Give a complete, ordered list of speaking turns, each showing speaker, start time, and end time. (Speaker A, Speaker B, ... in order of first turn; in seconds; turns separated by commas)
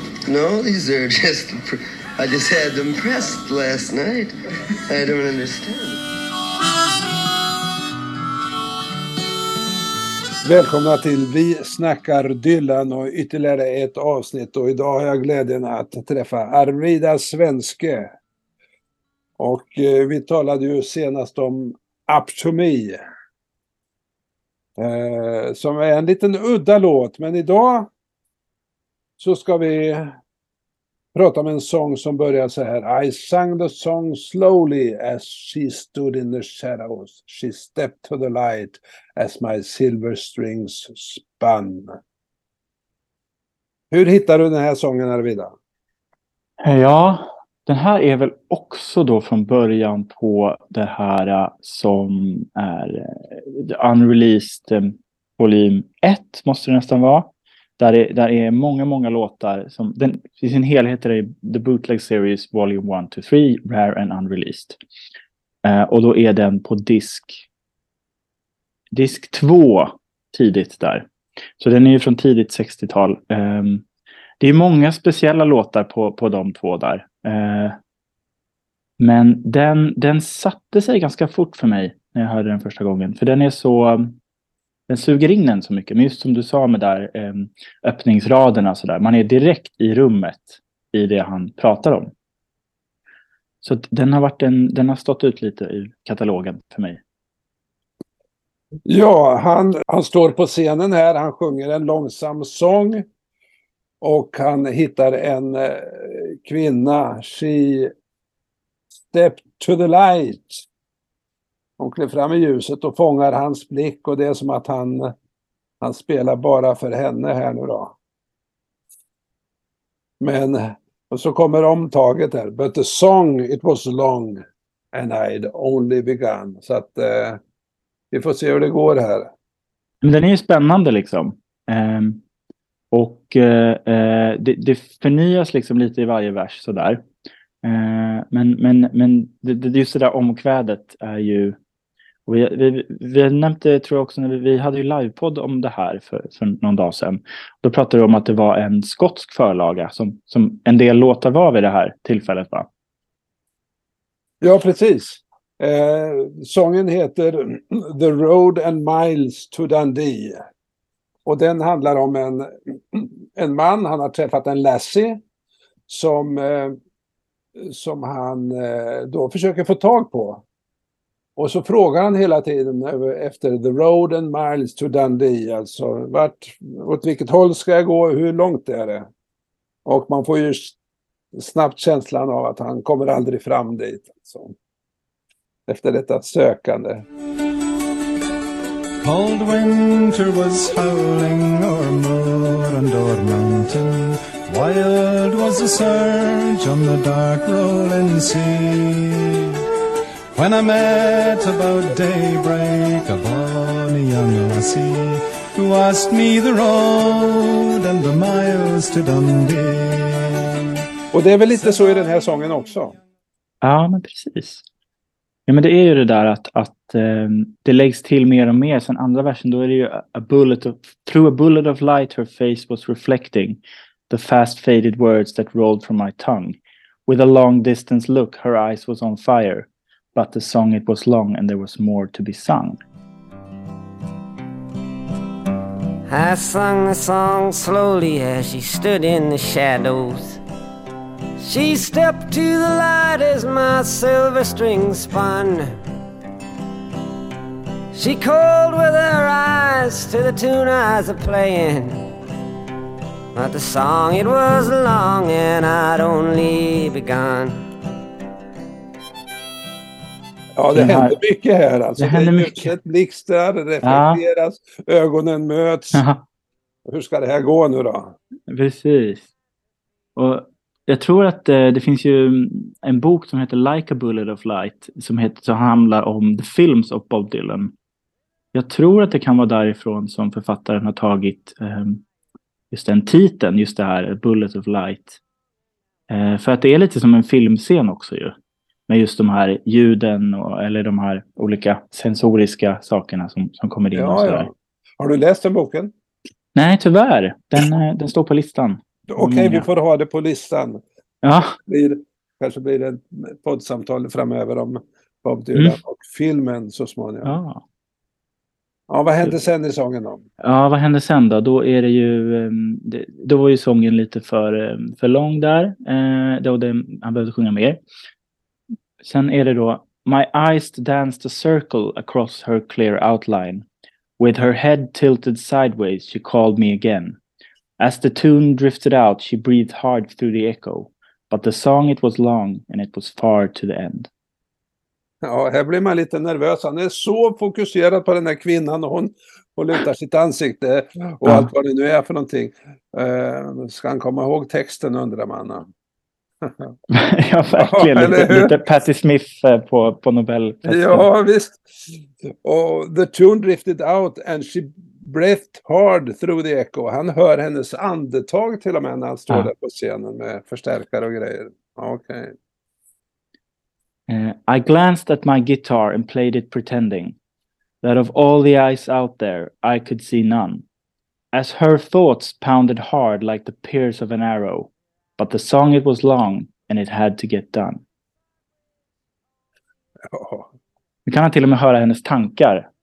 Speaker A: 0.2-4.4, Speaker A: 4.9-6.0, Speaker B: 10.4-18.1, Speaker B: 19.4-23.0, Speaker B: 24.8-27.9, Speaker B: 29.2-30.2, Speaker B: 31.1-42.0, Speaker B: 43.9-45.5, Speaker C: 46.6-64.8, Speaker C: 65.6-67.5, Speaker C: 68.9-71.1, Speaker C: 71.6-73.8, Speaker C: 74.4-77.8, Speaker C: 79.0-84.2, Speaker C: 84.9-92.1, Speaker C: 93.6-97.0, Speaker B: 98.9-103.1, Speaker B: 104.0-107.9, Speaker B: 109.1-110.7, Speaker B: 111.8-115.1, Speaker B: 115.8-118.0, Speaker B: 120.2-127.4, Speaker B: 128.1-129.3, Speaker C: 130.0-132.2, Speaker C: 132.9-137.0, Speaker C: 137.6-141.6, Speaker C: 142.3-152.7, Speaker B: 154.4-160.4, Speaker B: 161.2-165.2, Speaker B: 165.9-166.8, Speaker B: 167.6-170.4, Speaker B: 171.4-179.1, Speaker B: 179.8-180.8, Speaker B: 181.3-184.6, Speaker B: 185.7-187.1, Speaker D: 189.0-199.6, Speaker D: 200.4-210.6, Speaker B: 211.1-213.0, Speaker C: 213.6-214.6, Speaker C: 215.5-232.8, Speaker E: 236.1-240.4, Speaker E: 241.4-245.8, Speaker E: 247.9-252.0, Speaker E: 253.3-257.6, Speaker B: 260.6-266.0, Speaker C: 260.8-261.2, Speaker C: 262.0-262.7, Speaker C: 263.8-264.2, Speaker C: 265.9-266.2, Speaker B: 266.9-268.2, Speaker C: 268.5-269.3, Speaker C: 270.2-277.7, Speaker C: 278.5-282.0, Speaker C: 282.7-285.2, Speaker C: 286.1-288.4, Speaker C: 288.9-294.5, Speaker B: 293.9-295.9, Speaker C: 296.6-299.7, Speaker B: 299.1-300.8, Speaker C: 301.2-301.6, Speaker B: 301.7-307.4, Speaker C: 307.3-307.6, Speaker B: 308.9-310.2, Speaker C: 310.4-317.8, Speaker C: 319.0-323.7, Speaker C: 324.2-327.2, Speaker C: 327.8-334.1, Speaker B: 335.2-345.7, Speaker C: 341.2-341.5, Speaker B: 346.4-346.7, Speaker C: 346.9-351.1, Speaker B: 347.5-348.6, Speaker B: 350.6-362.4, Speaker C: 364.1-367.2, Speaker C: 367.8-370.6, Speaker C: 371.3-377.8, Speaker B: 380.1-380.5, Speaker C: 381.1-382.7